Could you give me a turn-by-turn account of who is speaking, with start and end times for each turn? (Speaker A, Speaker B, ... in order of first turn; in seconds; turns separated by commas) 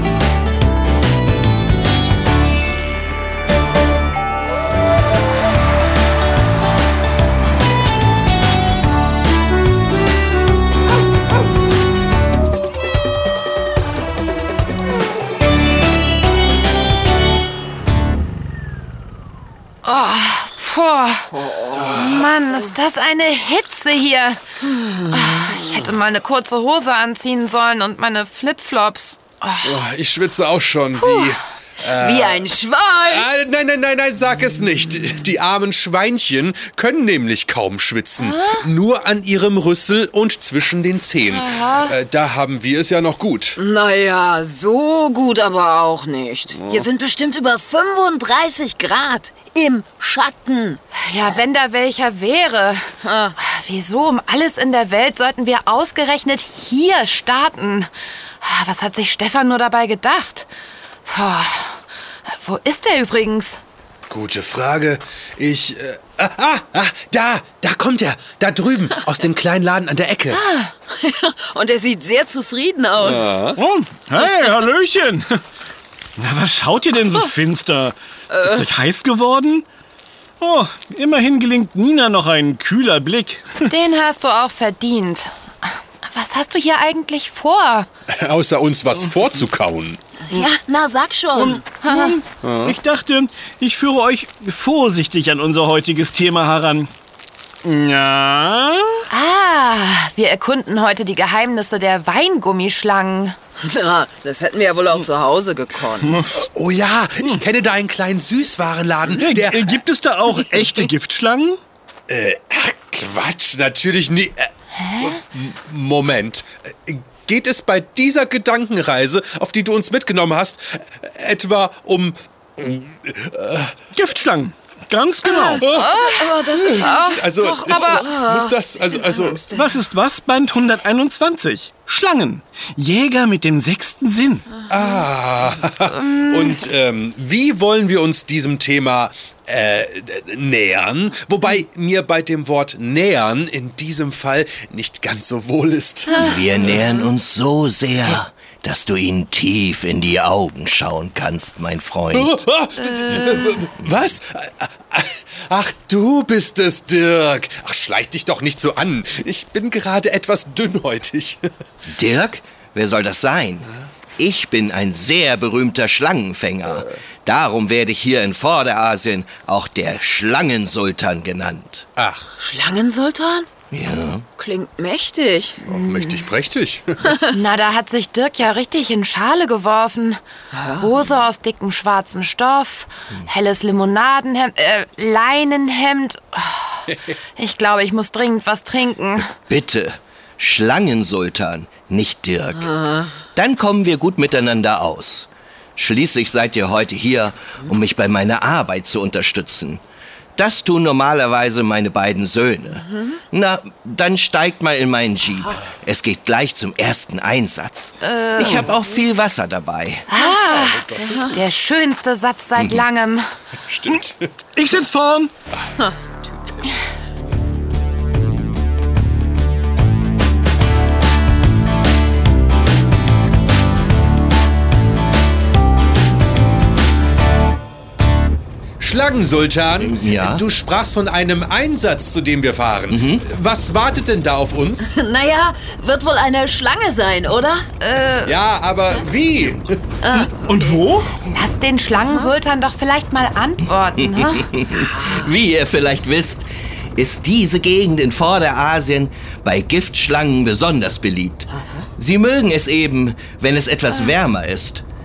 Speaker A: 19.8-21.3, Speaker B: 21.6-21.9, Speaker C: 21.8-22.2, Speaker A: 21.9-24.4, Speaker A: 25.0-29.8, Speaker C: 29.6-32.4, Speaker A: 31.0-31.4, Speaker B: 32.0-33.3, Speaker C: 33.0-43.6, Speaker A: 38.2-38.7, Speaker A: 41.3-42.0, Speaker B: 43.6-50.8, Speaker C: 46.6-46.8, Speaker A: 51.0-60.5, Speaker B: 53.0-53.4, Speaker A: 61.0-63.6, Speaker C: 64.1-70.4, Speaker A: 70.3-70.7, Speaker B: 70.9-73.3, Speaker C: 73.0-73.6, Speaker D: 73.5-75.4, Speaker D: 76.2-79.6, Speaker B: 78.3-78.7, Speaker D: 80.4-83.5, Speaker A: 83.7-87.9, Speaker C: 88.1-90.0, Speaker D: 89.0-89.3, Speaker B: 90.3-91.6, Speaker D: 91.3-96.9, Speaker A: 91.8-92.2, Speaker C: 92.4-92.8, Speaker D: 97.6-99.0, Speaker A: 99.1-103.3, Speaker B: 103.6-106.1, Speaker D: 106.0-106.4, Speaker C: 106.3-109.8, Speaker D: 109.0-111.6, Speaker C: 112.1-123.8, Speaker A: 114.8-115.2, Speaker D: 123.9-125.7, Speaker C: 125.6-129.4, Speaker A: 125.6-128.1, Speaker B: 126.2-129.8, Speaker D: 129.5-134.5, Speaker C: 134.7-146.3, Speaker A: 135.8-136.6, Speaker A: 146.1-146.9, Speaker E: 146.1-152.3, Speaker C: 152.1-161.4, Speaker A: 152.8-153.7, Speaker E: 161.9-171.9, Speaker C: 172.0-172.3, Speaker B: 172.4-173.5, Speaker E: 173.7-174.2, Speaker B: 174.4-175.6, Speaker C: 175.6-177.1, Speaker A: 175.7-176.3, Speaker A: 177.3-180.2, Speaker B: 180.5-180.8, Speaker A: 180.8-189.3, Speaker E: 189.3-192.8, Speaker E: 193.3-199.8, Speaker E: 200.3-210.1, Speaker A: 208.0-208.7, Speaker D: 208.4-208.7, Speaker A: 210.1-213.3, Speaker C: 210.4-211.4, Speaker B: 211.0-211.3, Speaker E: 212.6-212.8, Speaker C: 213.7-214.3, Speaker D: 214.5-215.3, Speaker C: 228.8-234.9, Speaker E: 229.8-230.4, Speaker E: 232.9-233.2, Speaker B: 234.8-237.7, Speaker A: 237.8-238.4, Speaker C: 238.2-239.8, Speaker D: 240.1-241.1, Speaker A: 241.1-244.5, Speaker E: 244.0-254.8